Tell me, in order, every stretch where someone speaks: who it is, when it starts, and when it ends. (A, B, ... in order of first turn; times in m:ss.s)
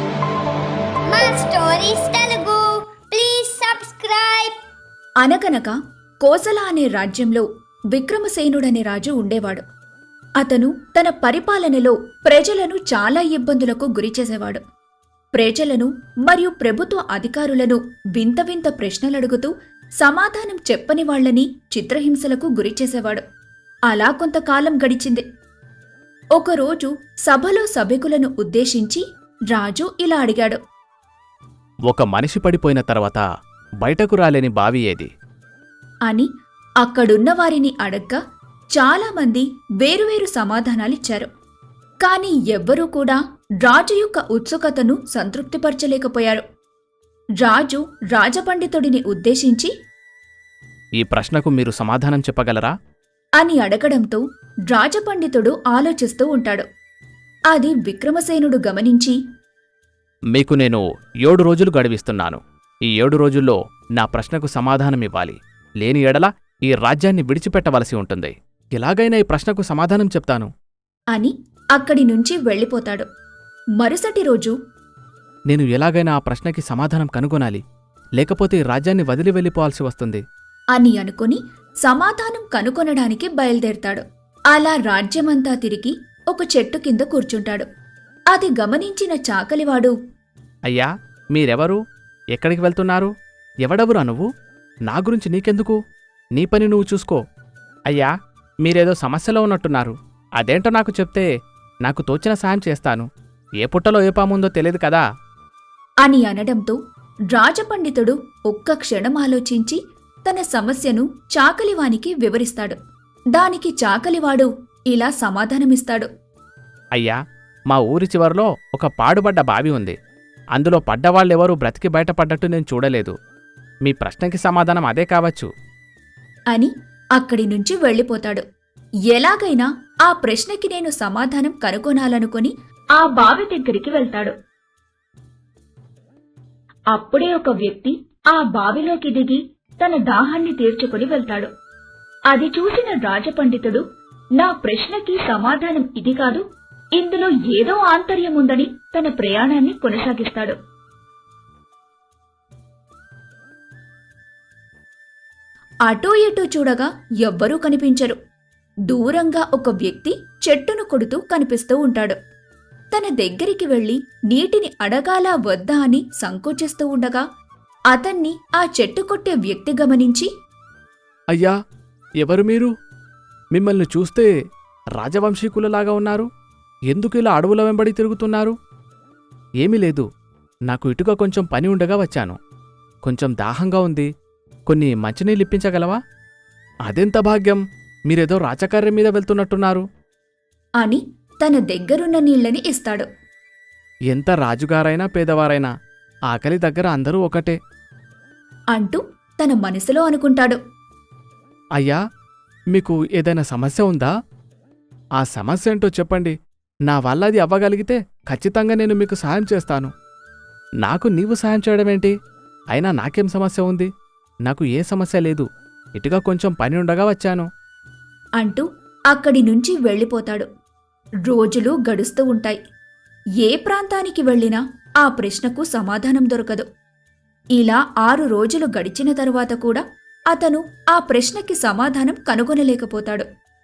0:01.1-0:04.6 A
0:05.2-0:09.6 B
0:10.4-0:14.6 B
0:15.4-0:19.5 B
0:20.0-0:23.2 B
0:23.9-0:25.2 B
0:26.4-0:30.6 B
0:31.9-0:33.2 C
0:33.8-0:35.1 C
0:36.8-0:38.2 B
0:38.8-0:41.3 B
0:42.0-0:46.4 B
0:47.4-0:49.7 B
0:51.0-0:52.7 C
0:53.4-0:56.7 B
0:57.5-0:59.2 B
1:00.3-1:10.5 C
1:11.1-1:13.1 B
1:13.8-1:14.6 B
1:15.5-1:17.6 C
1:18.2-1:20.2 C
1:20.8-1:27.7 B
1:28.3-1:29.9 B
1:30.7-1:31.8 C
1:32.4-1:33.1 C
1:33.6-1:34.3 C
1:34.9-1:35.8 C
1:36.4-1:37.2 C
1:38.6-1:41.3 C
1:41.9-1:43.1 C
1:43.6-1:45.0 C
1:46.0-1:46.8 B
1:47.3-1:52.8 B
1:53.4-1:56.1 B
1:57.7-2:00.0 C
2:00.6-2:03.1 C
2:03.9-2:05.5 C
2:06.5-2:08.4 B
2:09.1-2:14.4 B
2:16.9-2:21.5 B
2:22.3-2:23.8 B
2:24.4-2:26.4 B
2:27.0-2:30.6 B
2:35.9-2:38.2 B
2:38.9-2:42.2 B
2:42.9-2:47.2 B
2:47.9-2:50.3 B
2:52.2-2:52.7 C
2:53.5-2:54.3 C
2:55.0-2:56.3 C
2:56.9-2:58.6 C
2:59.6-3:00.1 C
3:00.7-3:02.4 C
3:03.1-3:04.1 C
3:04.7-3:06.0 C
3:06.9-3:09.8 C
3:10.8-3:13.1 B
3:14.1-3:15.7 C
3:16.3-3:17.6 C
3:18.7-3:20.6 B
3:22.7-3:24.1 C
3:25.2-3:26.4 C
3:26.9-3:29.9 C
3:30.8-3:32.2 C
3:32.7-3:33.9 C
3:34.5-3:37.5 C
3:38.4-3:40.5 B
3:41.3-3:42.6 B
3:43.4-3:46.7 B
3:47.6-3:53.3 B